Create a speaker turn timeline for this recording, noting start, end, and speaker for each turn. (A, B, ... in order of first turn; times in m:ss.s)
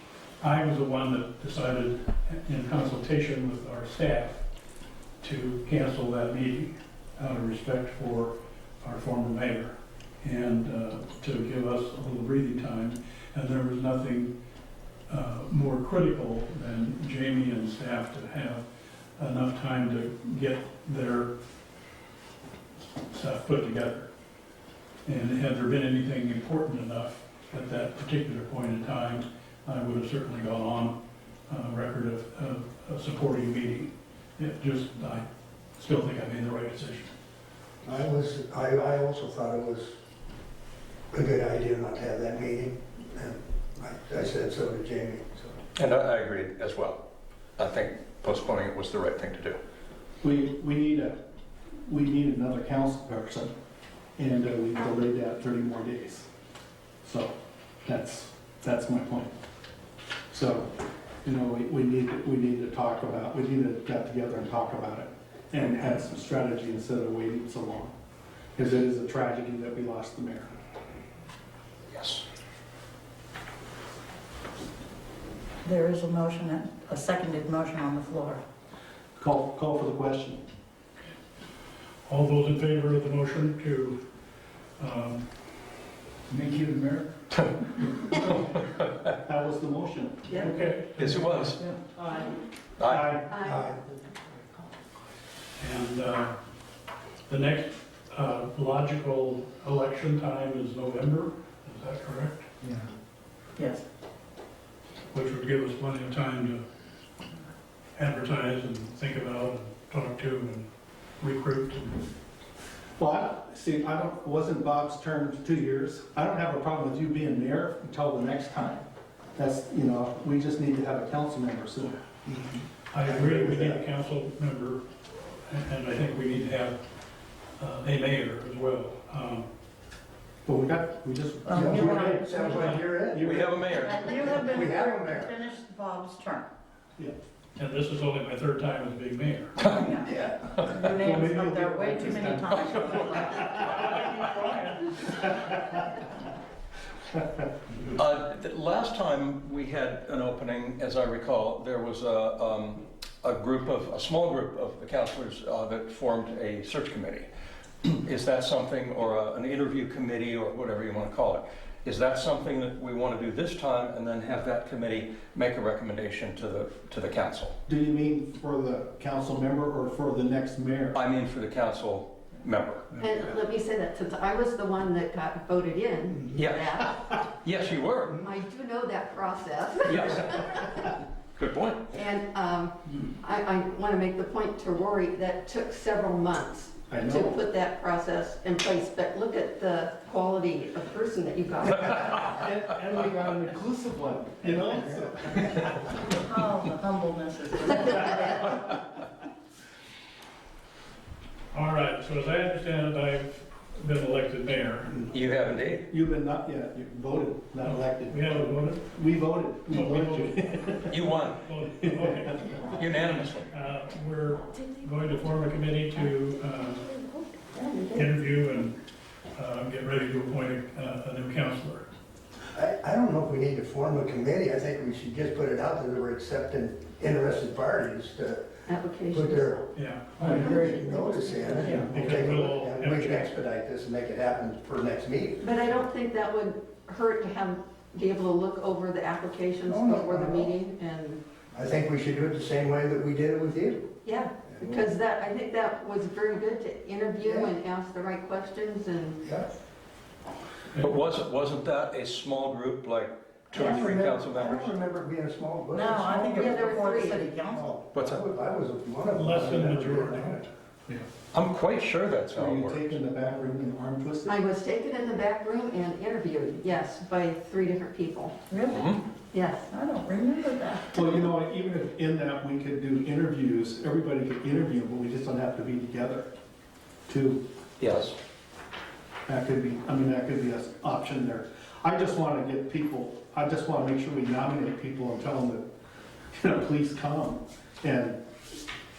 0:00.4-0:04.4 A
0:05.2-0:14.3 A
0:15.1-0:18.6 A
0:19.2-0:21.3 A
0:23.0-0:24.1 A
0:25.0-0:35.2 A
0:35.8-0:37.1 A
0:37.8-0:39.9 B
0:41.1-0:45.5 B
0:45.7-0:47.0 C
0:47.6-0:49.6 C
0:50.2-0:51.2 D
0:51.8-0:53.5 D
0:54.2-0:56.3 D
0:57.0-0:59.3 D
1:00.3-1:07.9 D
1:08.6-1:10.5 D
1:11.9-1:12.2 C
1:15.6-1:18.4 E
1:19.2-1:20.4 D
1:22.0-1:24.0 A
1:24.8-1:25.2 A
1:29.2-1:30.3 D
1:30.4-1:31.6 A
1:31.0-1:31.6 C
1:32.0-1:32.3 E
1:32.8-1:33.1 C
1:32.9-1:33.3 D
1:33.3-1:33.7 F
1:33.5-1:33.8 B
1:35.6-1:36.4 A
1:37.3-1:42.5 A
1:43.6-1:43.8 E
1:45.1-1:46.6 A
1:48.0-1:50.7 A
1:51.2-1:52.1 A
1:53.0-1:58.8 D
1:59.4-2:02.0 D
2:02.2-2:03.8 B
2:02.9-2:04.8 A
2:05.4-2:06.8 A
2:07.6-2:09.5 A
2:10.4-2:13.9 D
2:11.4-2:12.7 E
2:11.5-2:13.3 B
2:13.2-2:14.1 C
2:13.7-2:16.4 E
2:14.1-2:15.3 B
2:17.6-2:19.6 A
2:19.6-2:23.5 E
2:20.1-2:20.4 B
2:20.6-2:22.7 D
2:22.5-2:23.6 C
2:23.5-2:25.5 A
2:27.9-2:37.3 C
2:37.8-2:47.6 C
2:47.7-2:51.0 D
2:50.9-2:52.9 C
2:53.0-2:56.9 F
2:56.3-2:58.2 C
2:58.2-3:00.8 F
2:59.9-3:00.4 C
3:01.4-3:01.8 C
3:01.9-3:12.1 F
3:06.9-3:07.4 D
3:12.0-3:16.0 D
3:16.1-3:18.7 E
3:21.5-3:25.0 A
3:25.1-3:25.9 C
3:25.9-3:31.0 D
3:27.6-3:28.8 A
3:29.7-3:32.8 A
3:30.9-3:31.4 C
3:31.8-3:32.4 D
3:32.8-3:33.5 C
3:33.4-3:37.0 A
3:37.5-3:38.0 F
3:37.9-3:38.7 A
3:39.3-3:41.8 A
3:42.5-3:48.4 B
3:48.6-3:49.6 F
3:49.1-3:49.6 B
3:49.7-3:50.7 A
3:50.2-3:55.4 B
3:51.8-3:53.3 A
3:55.4-4:01.2 F
3:59.7-4:00.5 B
4:01.5-4:03.9 B
4:04.0-4:09.2 F
4:04.4-4:04.9 B
4:07.2-4:07.5 B
4:09.2-4:09.5 B
4:10.8-4:14.8 C
4:13.5-4:16.6 B
4:15.7-4:17.6 E
4:16.3-4:17.4 F
4:17.4-4:20.5 B
4:17.9-4:18.2 C
4:19.1-4:20.4 A
4:21.3-4:23.0 C
4:22.3-4:24.3 D
4:24.2-4:28.4 F
4:28.5-4:28.8 E
4:28.6-4:29.0 C
4:29.3-4:29.7 F
4:29.7-4:31.2 E
4:30.9-4:36.3 D
4:37.1-4:37.4 D
4:37.8-4:38.2 C
4:39.3-4:45.6 D
4:46.3-4:48.2 D